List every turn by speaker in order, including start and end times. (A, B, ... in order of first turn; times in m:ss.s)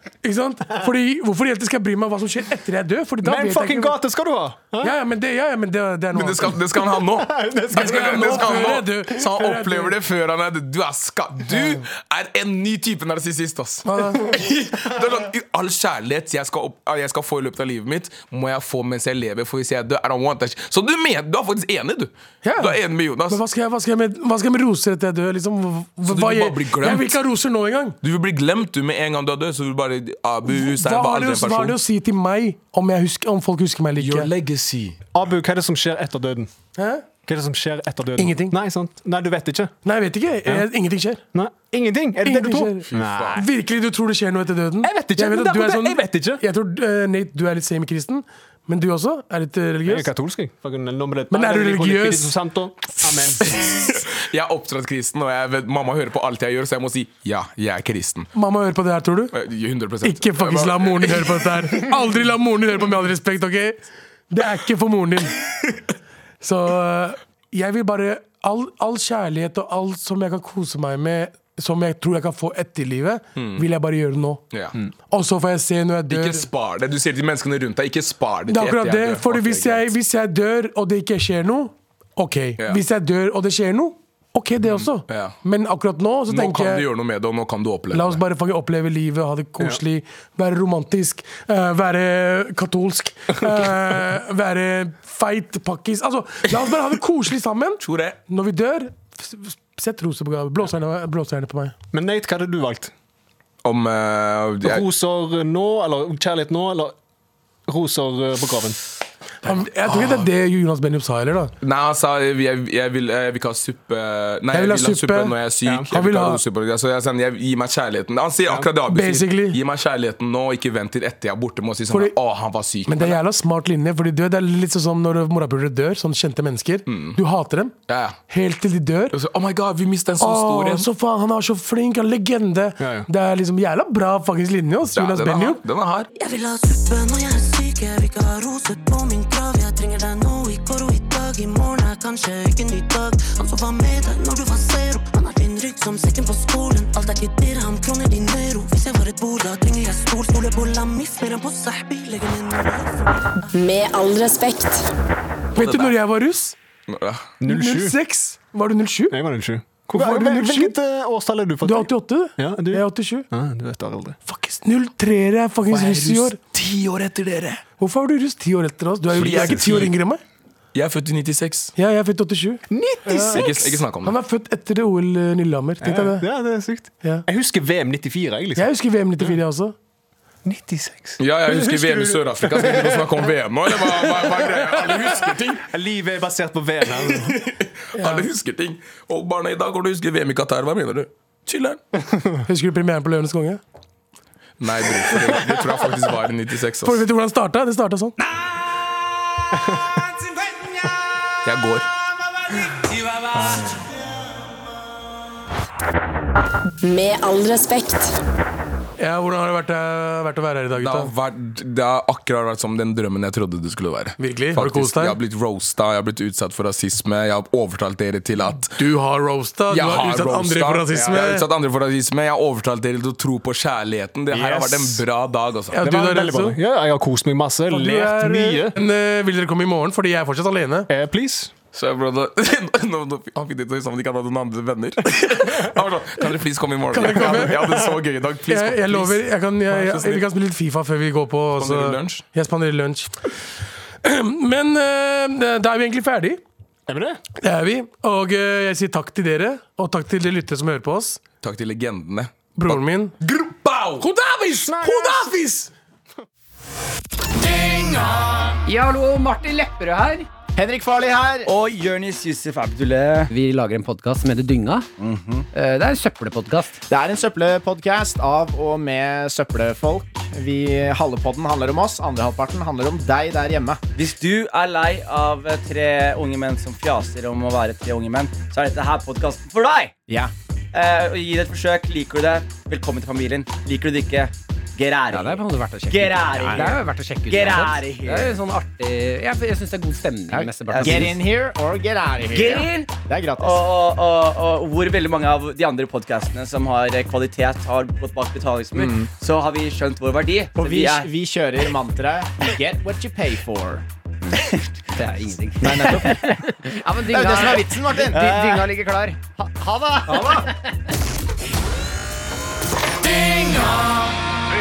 0:00.2-0:04.0 A
0:03.2-0:05.0 B
0:04.8-0:06.8 A
0:06.1-0:23.4 C
0:07.2-0:08.8 B
0:07.7-0:09.9 A
0:11.5-0:11.8 A
0:13.9-0:14.3 A
0:22.4-0:22.8 A
0:23.3-0:28.0 A
0:26.1-0:27.2 C
0:28.0-0:31.8 C
0:30.5-0:34.3 A
0:34.0-0:35.0 C
0:35.1-0:36.5 B
0:36.8-0:37.1 A
0:37.3-0:39.7 B
0:38.2-0:38.6 A
0:39.8-0:41.2 A
0:41.3-0:43.4 B
0:42.2-0:50.1 A
0:42.9-0:43.4 C
0:44.8-0:46.4 B
0:49.9-0:53.5 B
0:51.3-0:52.4 A
0:53.4-0:58.3 C
0:58.4-0:59.4 A
0:59.3-1:01.5 C
1:00.0-1:03.8 A
1:04.3-1:05.4 A
1:06.4-1:14.4 A
1:13.4-1:13.6 C
1:14.5-1:14.8 C
1:15.1-1:16.5 A
1:16.1-1:19.9 C
1:18.5-1:26.9 A
1:25.1-1:25.4 C
1:26.3-1:28.2 C
1:27.9-1:41.8 A
1:37.8-1:38.2 C
1:41.9-1:42.9 B
1:43.6-1:44.8 C
1:44.6-1:47.0 B
1:47.7-1:48.8 B
1:49.4-1:51.5 A
1:49.9-1:50.3 C
1:51.6-2:03.2 C
1:54.5-1:55.4 A
1:55.6-1:55.9 B
1:55.9-1:56.4 A
1:58.9-1:59.6 A
2:01.9-2:02.1 A
2:02.9-2:07.7 A
2:06.9-2:07.2 C
2:07.9-2:08.2 C
2:08.3-2:09.1 A
2:09.1-2:10.9 C
2:10.2-2:15.6 A
2:12.8-2:13.1 B
2:14.9-2:16.1 C
2:16.1-2:33.5 D
2:33.5-2:34.9 E
2:35.6-2:36.0 C
2:35.6-2:36.6 A
2:36.9-2:37.3 C
2:37.4-2:38.0 B
2:37.4-2:39.2 A
2:39.1-2:44.2 B
2:39.9-2:40.7 A
2:41.6-2:43.3 A
2:44.3-2:46.4 A
2:45.7-2:47.6 C
2:47.8-2:50.2 A
2:49.1-2:49.9 C
2:49.2-2:49.5 B
2:50.7-2:51.7 C
2:51.8-2:56.3 A
2:52.7-2:53.8 B
2:53.3-2:54.1 C
2:55.8-2:58.7 B
2:58.6-2:59.8 A
3:00.4-3:03.2 B
3:01.2-3:05.6 C
3:05.7-3:07.4 B
3:07.1-3:11.8 C
3:08.0-3:08.3 A
3:12.5-3:13.6 A
3:14.6-3:17.0 C
3:16.8-3:18.1 A
3:21.4-3:21.9 C
3:23.3-3:23.8 B
3:26.8-3:28.2 E
3:29.0-3:31.1 A
3:30.8-3:38.8 C
3:34.2-3:35.2 A
3:38.8-3:41.4 A
3:39.7-3:45.8 C
3:40.9-3:41.4 B
3:44.3-3:45.0 B
3:45.7-3:46.6 A
3:45.8-3:48.8 B
3:47.7-3:50.9 A
3:50.9-3:51.5 B
3:51.7-4:00.3 C
3:56.9-3:57.9 A
3:57.0-3:57.7 B
3:58.5-4:03.2 A
4:01.6-4:02.2 C
4:04.0-4:06.4 A
4:06.9-4:07.2 B
4:07.4-4:11.2 A
4:11.4-4:14.0 C
4:12.6-4:13.1 A
4:14.0-4:15.7 A
4:14.6-4:15.3 B
4:18.6-4:20.3 F
4:20.6-4:21.5 G
4:21.5-4:23.3 H
4:23.3-4:24.9 F
4:25.0-4:25.5 H
4:25.5-4:26.8 F
4:26.9-4:33.8 G
4:34.0-4:40.0 H
4:40.1-4:40.3 G
4:40.7-4:48.3 H
4:45.1-4:51.2 F
4:46.1-4:46.8 G
4:50.3-4:53.6 G
4:50.7-4:51.2 H
4:52.3-5:01.1 H
4:58.8-4:59.1 G
5:00.6-5:03.8 G
5:04.3-5:04.6 H
5:05.0-5:08.6 F
5:05.6-5:06.4 H
5:07.1-5:10.5 G
5:07.1-5:09.2 H
5:13.2-5:13.5 D